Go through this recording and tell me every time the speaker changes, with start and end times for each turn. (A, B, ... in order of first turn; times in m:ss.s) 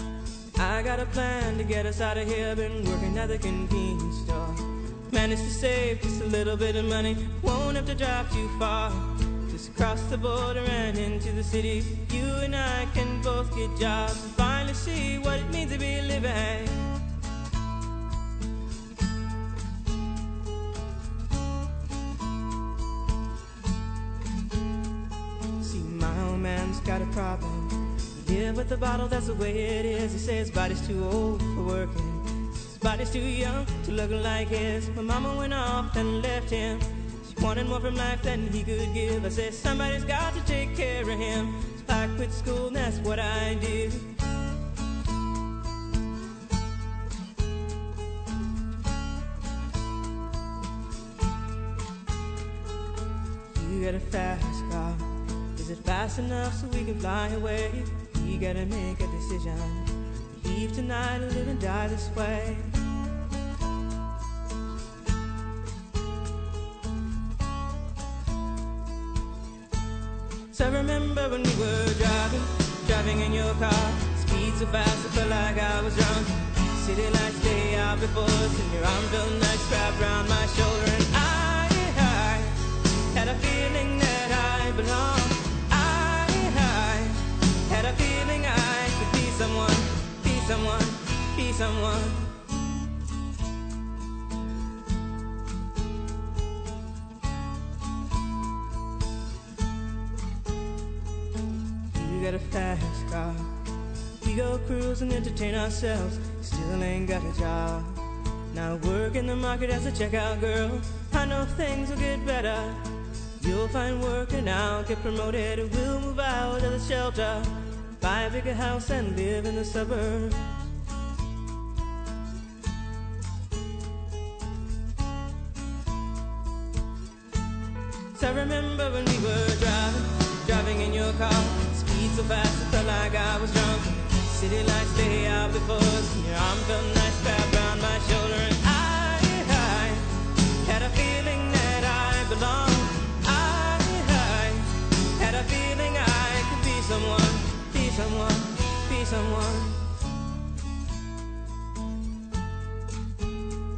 0:00.6-0:16.8 A
0:25.6-0:44.1 A
0:53.5-1:02.7 A
1:10.5-1:22.5 A
1:23.1-1:32.2 A
1:42.0-1:43.5 A
1:44.2-1:48.0 A
1:48.5-1:52.8 A
1:53.4-2:00.4 A
2:08.1-2:20.0 A
2:20.6-2:29.8 A